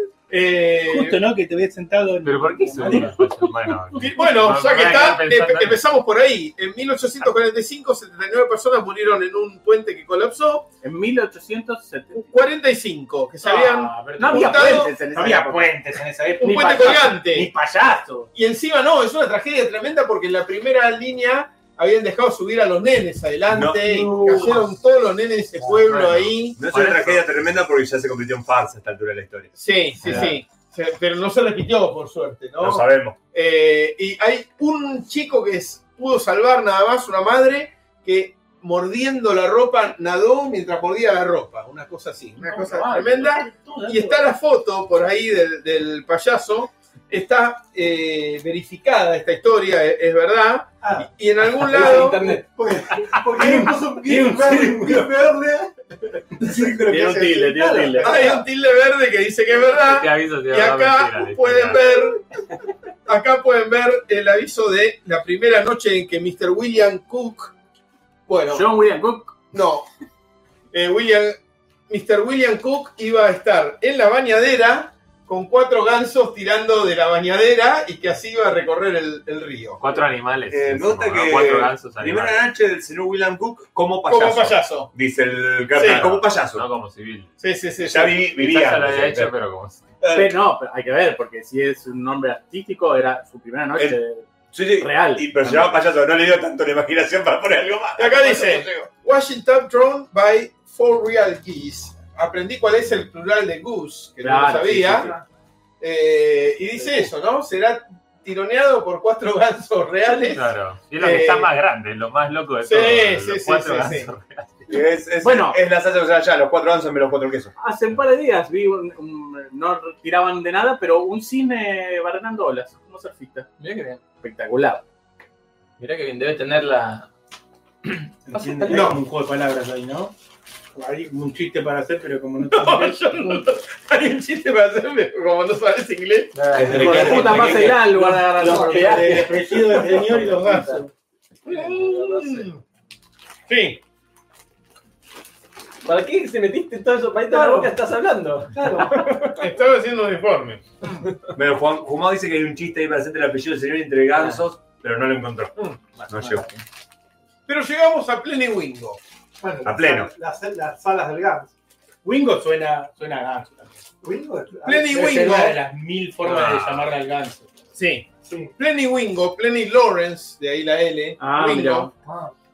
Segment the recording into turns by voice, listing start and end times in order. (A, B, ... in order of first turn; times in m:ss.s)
0:00.3-0:01.3 A
0:00.8-0:03.3 B
0:02.2-0:05.8 C
0:02.8-0:03.1 D
0:04.0-0:10.7 A
0:10.8-0:12.4 E
0:12.1-0:15.0 A
0:13.5-0:18.3 B
0:14.2-0:15.8 E
0:16.4-0:17.5 A
0:18.4-0:27.2 A
0:23.5-0:23.8 F
0:23.8-0:24.7 G
0:25.8-0:26.3 C
0:26.6-0:29.5 F
0:29.6-0:52.3 A
0:30.1-0:30.3 E
0:32.6-0:33.2 F
0:42.4-0:44.2 B
0:51.7-0:55.7 G
0:51.7-0:52.4 D
0:53.4-0:54.7 E
0:53.5-0:55.0 B
0:56.3-0:58.5 G
0:56.8-0:58.3 E
0:58.0-1:02.3 A
0:59.7-1:02.0 C
1:03.1-1:07.5 A
1:08.3-1:08.7 A
1:08.5-1:09.4 E
1:09.5-1:09.9 A
1:10.7-1:19.8 A
1:19.8-1:22.4 C
1:20.5-1:26.7 F
1:24.1-1:24.9 A
1:25.8-1:26.1 A
1:25.8-1:27.3 C
1:27.4-1:28.2 A
1:27.9-1:29.3 F
1:28.3-1:29.9 C
1:30.0-1:30.3 F
1:30.1-1:35.8 E
1:34.5-1:38.9 F
1:38.0-1:45.2 A
1:44.2-1:45.1 E
1:45.8-1:51.6 A
1:50.0-1:54.8 C
1:52.6-1:54.1 A
1:54.7-1:57.5 F
1:55.2-1:55.6 E
1:57.6-2:03.5 E
2:03.6-2:04.0 D
2:04.2-2:04.8 E
2:05.8-2:07.1 D
2:07.8-2:08.9 D
2:08.3-2:10.1 B
2:08.7-2:09.0 A
2:10.8-2:13.4 B
2:12.4-2:17.0 A
2:16.3-2:20.8 D
2:16.5-2:17.8 F
2:16.7-2:19.0 E
2:16.8-2:17.5 B
2:18.4-2:19.1 G
2:18.4-2:20.9 B
2:18.9-2:20.4 A
2:21.5-2:22.5 D
2:21.5-2:22.6 A
2:23.5-2:23.8 A
2:25.8-2:29.2 D
2:27.3-2:27.7 G
2:28.5-2:29.3 G
2:29.2-2:30.7 A
2:31.3-2:35.6 F
2:34.2-2:34.4 D
2:36.0-2:36.6 D
2:36.1-2:36.5 F
2:37.5-2:39.0 A
2:39.4-2:41.5 G
2:39.6-2:40.1 F
2:42.0-2:43.8 B
2:44.0-2:45.2 G
2:44.6-2:45.6 A
2:44.9-2:47.4 B
2:46.2-2:46.9 C
2:47.8-2:51.9 A
2:48.2-2:48.5 G
2:51.2-2:51.9 E
2:52.0-2:52.3 G